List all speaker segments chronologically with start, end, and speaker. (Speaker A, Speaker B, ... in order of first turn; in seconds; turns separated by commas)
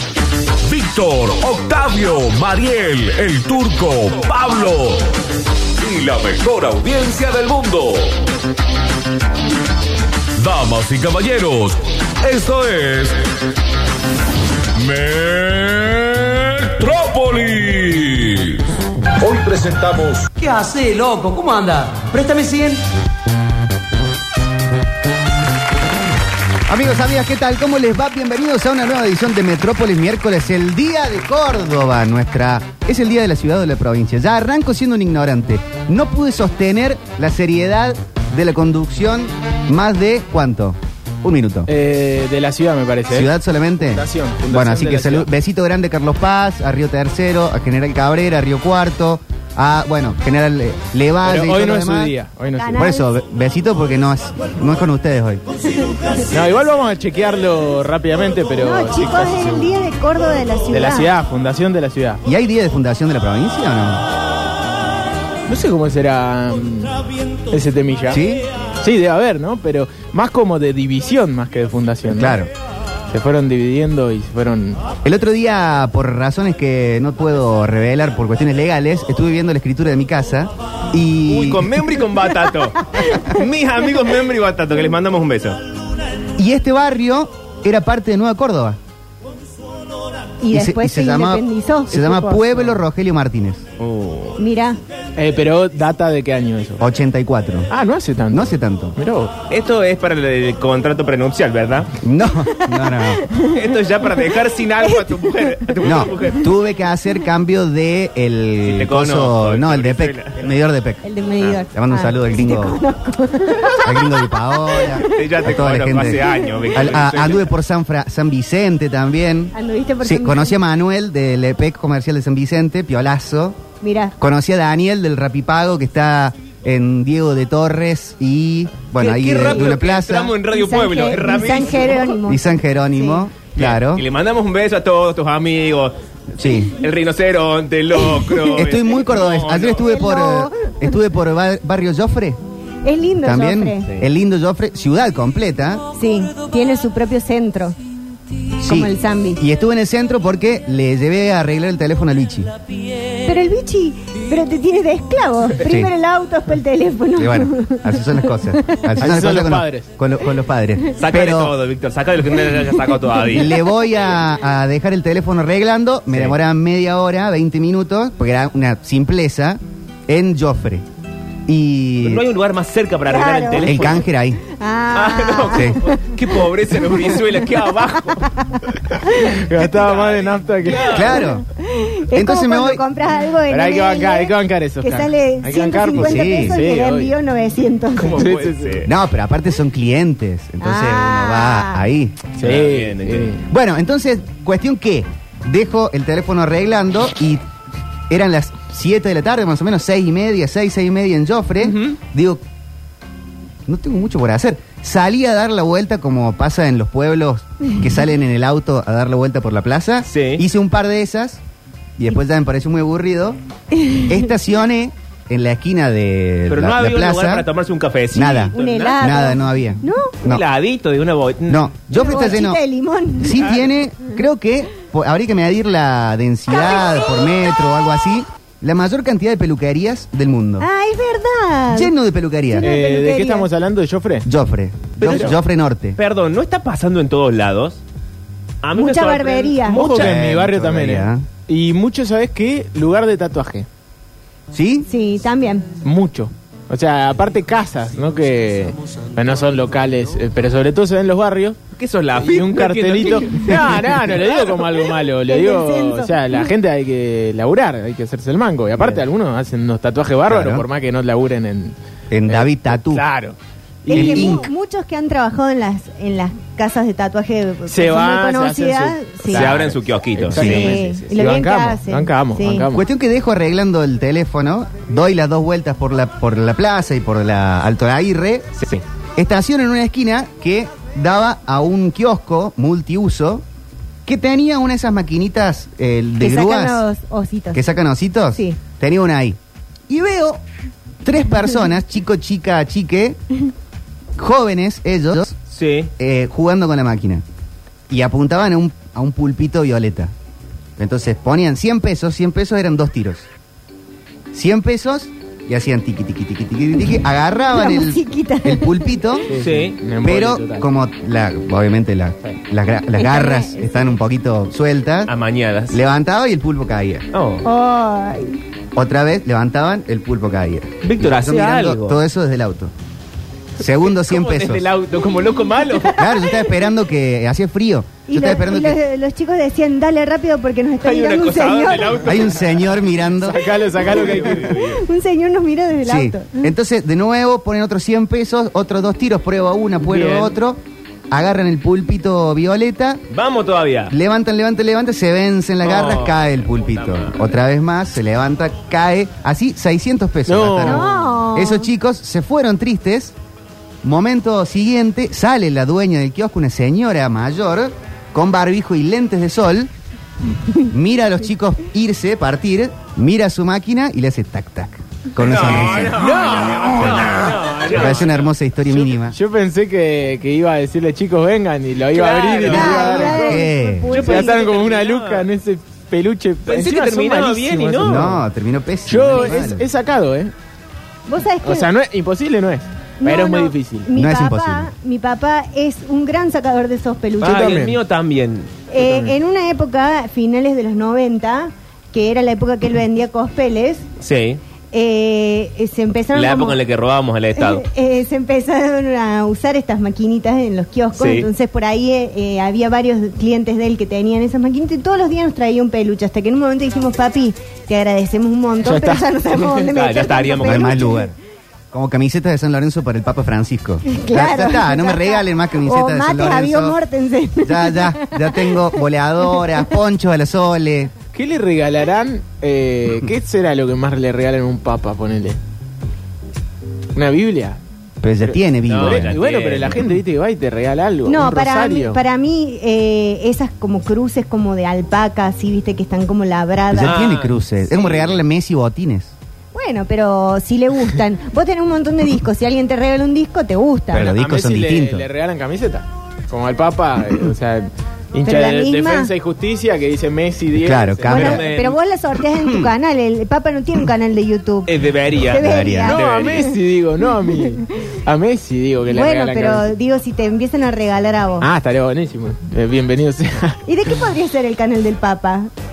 Speaker A: 0.6-5.1, Speaker A: 5.8-8.2, Speaker A: 10.4-13.2, Speaker A: 14.7-18.7, Speaker A: 19.2-20.3, Speaker B: 20.4-22.8, Speaker C: 26.7-41.7, Speaker D: 41.7-45.3, Speaker C: 43.1-52.1, Speaker D: 51.2-52.8, Speaker E: 52.6-53.0, Speaker C: 52.7-55.4, Speaker D: 56.3-59.7, Speaker E: 58.6-61.1, Speaker D: 60.7-62.2, Speaker C: 62.2-64.0, Speaker D: 65.5-67.0, Speaker D: 67.5-68.2, Speaker C: 68.1-68.5, Speaker D: 68.8-72.4, Speaker C: 72.1-72.5, Speaker D: 73.1-74.8, Speaker C: 75.0-81.9, Speaker F: 81.3-85.6, Speaker C: 86.4-88.8, Speaker E: 90.4-92.4, Speaker C: 90.5-93.6, Speaker F: 93.8-94.4, Speaker E: 94.4-94.8, Speaker D: 95.2-96.8, Speaker C: 96.8-97.7, Speaker D: 97.7-99.3, Speaker C: 98.3-99.0, Speaker F: 99.5-101.9, Speaker C: 102.0-103.2, Speaker E: 102.5-103.8, Speaker F: 103.4-106.5, Speaker E: 104.8-105.8, Speaker C: 105.8-111.0, Speaker F: 108.6-110.5, Speaker E: 111.0-115.0, Speaker C: 111.7-112.8, Speaker C: 113.8-123.6, Speaker F: 115.0-117.5, Speaker E: 116.3-116.6, Speaker E: 119.5-120.5, Speaker E: 123.8-124.1, Speaker C: 124.2-130.4, Speaker F: 129.0-132.1, Speaker E: 130.5-133.2, Speaker C: 132.2-134.1, Speaker F: 133.5-139.9, Speaker C: 136.3-136.7, Speaker C: 138.5-142.4, Speaker E: 139.8-140.9, Speaker E: 142.8-143.8, Speaker C: 143.2-145.8, Speaker E: 145.9-147.8, Speaker C: 148.6-152.5, Speaker E: 148.6-149.4, Speaker E: 153.2-158.9, Speaker C: 155.6-155.9, Speaker C: 157.2-161.5, Speaker D: 159.0-159.9, Speaker F: 160.9-163.6, Speaker C: 163.3-170.8, Speaker F: 166.1-166.3, Speaker C: 171.5-172.2, Speaker F: 172.0-174.0, Speaker E: 173.1-177.4, Speaker C: 173.6-174.4, Speaker F: 174.9-178.3, Speaker E: 178.1-179.4, Speaker D: 179.2-181.0, Speaker F: 179.6-181.2, Speaker C: 180.8-181.4, Speaker E: 181.1-188.3, Speaker C: 182.1-182.8, Speaker D: 183.5-187.1, Speaker C: 185.9-186.6, Speaker F: 188.0-188.9, Speaker D: 188.1-188.8, Speaker C: 188.8-192.2, Speaker E: 190.6-191.8, Speaker D: 192.4-193.4, Speaker F: 192.4-193.3, Speaker C: 193.5-197.4, Speaker C: 198.1-202.4, Speaker C: 203.7-211.4, Speaker F: 210.1-210.4, Speaker C: 212.0-213.4, Speaker E: 213.7-214.3, Speaker C: 214.0-217.4, Speaker F: 216.5-219.0, Speaker C: 218.1-220.4, Speaker E: 218.5-220.1, Speaker F: 220.2-221.7, Speaker C: 221.5-222.6, Speaker E: 221.9-223.5, Speaker C: 223.2-230.7, Speaker E: 226.5-227.3, Speaker E: 230.6-231.9, Speaker C: 231.7-232.7, Speaker E: 232.5-233.5, Speaker D: 232.6-234.3, Speaker C: 234.2-236.0, Speaker D: 235.0-235.3, Speaker F: 235.0-235.3, Speaker F: 236.0-237.8, Speaker F: 238.6-240.2, Speaker E: 238.8-239.8, Speaker D: 239.7-243.7, Speaker C: 239.9-241.2, Speaker C: 244.5-244.9, Speaker E: 244.9-245.6, Speaker D: 245.8-251.6, Speaker F: 251.8-254.6, Speaker D: 252.2-261.8, Speaker E: 255.2-256.4, Speaker C: 260.3-260.6, Speaker C: 262.1-263.0, Speaker D: 262.3-264.4, Speaker E: 263.9-269.5, Speaker C: 263.9-264.5, Speaker D: 267.7-272.9, Speaker F: 269.3-270.8, Speaker C: 270.3-270.7, Speaker E: 270.4-272.6, Speaker C: 272.7-278.6, Speaker C: 279.2-283.4, Speaker C: 284.1-286.8, Speaker E: 286.2-287.6, Speaker C: 287.5-289.4, Speaker C: 289.9-290.4, Speaker C: 291.0-293.2, Speaker C: 294.1-295.4, Speaker F: 295.5-295.9, Speaker C: 296.0-297.2, Speaker C: 297.9-300.1, Speaker C: 300.8-303.3, Speaker C: 304.3-309.3, Speaker E: 307.5-309.2, Speaker D: 309.3-310.7, Speaker F: 309.3-309.8, Speaker C: 310.0-315.1, Speaker E: 313.0-314.0, Speaker F: 315.1-315.8, Speaker C: 315.7-317.0, Speaker F: 317.1-317.4, Speaker E: 317.4-318.4, Speaker C: 318.7-322.7, Speaker F: 320.8-322.0, Speaker C: 323.6-324.6, Speaker F: 323.6-326.1, Speaker C: 325.9-328.8, Speaker E: 326.0-326.4, Speaker E: 328.1-332.1, Speaker F: 330.8-332.6, Speaker C: 332.0-333.4, Speaker D: 333.2-334.8, Speaker F: 333.8-334.7, Speaker E: 333.9-336.5, Speaker C: 335.9-343.0, Speaker D: 339.8-340.3, Speaker F: 343.1-343.9, Speaker C: 343.9-353.1, Speaker F: 345.6-347.1, Speaker D: 350.2-351.0, Speaker E: 350.6-351.7, Speaker C: 353.8-359.7, Speaker C: 360.7-369.1, Speaker F: 365.2-368.3, Speaker D: 365.5-367.9, Speaker D: 368.7-373.4, Speaker F: 371.9-373.2, Speaker E: 372.4-374.5, Speaker C: 372.5-373.9, Speaker F: 373.9-375.2, Speaker D: 373.9-378.2, Speaker F: 376.4-378.2, Speaker C: 377.8-379.7, Speaker D: 378.9-380.3, Speaker E: 381.1-381.7, Speaker D: 381.4-383.9, Speaker E: 383.0-387.6, Speaker C: 383.9-384.7, Speaker F: 387.2-388.7, Speaker D: 387.2-387.8, Speaker E: 388.7-393.9, Speaker F: 394.0-394.4, Speaker E: 394.7-396.6, Speaker F: 396.1-397.6, Speaker E: 397.4-411.1, Speaker F: 400.9-401.3, Speaker D: 408.6-409.0, Speaker F: 409.4-410.9, Speaker C: 410.4-411.1, Speaker C: 411.7-416.8, Speaker E: 413.8-418.8, Speaker C: 417.4-420.9, Speaker E: 419.3-419.6, Speaker D: 421.1-425.4, Speaker D: 426.9-427.6, Speaker C: 428.0-429.2, Speaker D: 428.2-432.0, Speaker F: 428.6-429.9, Speaker E: 431.1-437.0, Speaker C: 436.7-439.1, Speaker F: 436.8-437.4, Speaker E: 439.5-444.1, Speaker C: 443.9-445.1, Speaker D: 443.9-451.4, Speaker E: 448.2-449.1, Speaker C: 450.6-451.4, Speaker F: 451.1-451.8, Speaker E: 451.1-456.5, Speaker C: 452.3-452.7, Speaker F: 454.7-456.5, Speaker C: 455.3-456.0, Speaker D: 455.8-459.7, Speaker E: 458.9-461.5, Speaker D: 461.4-463.6, Speaker E: 463.6-465.5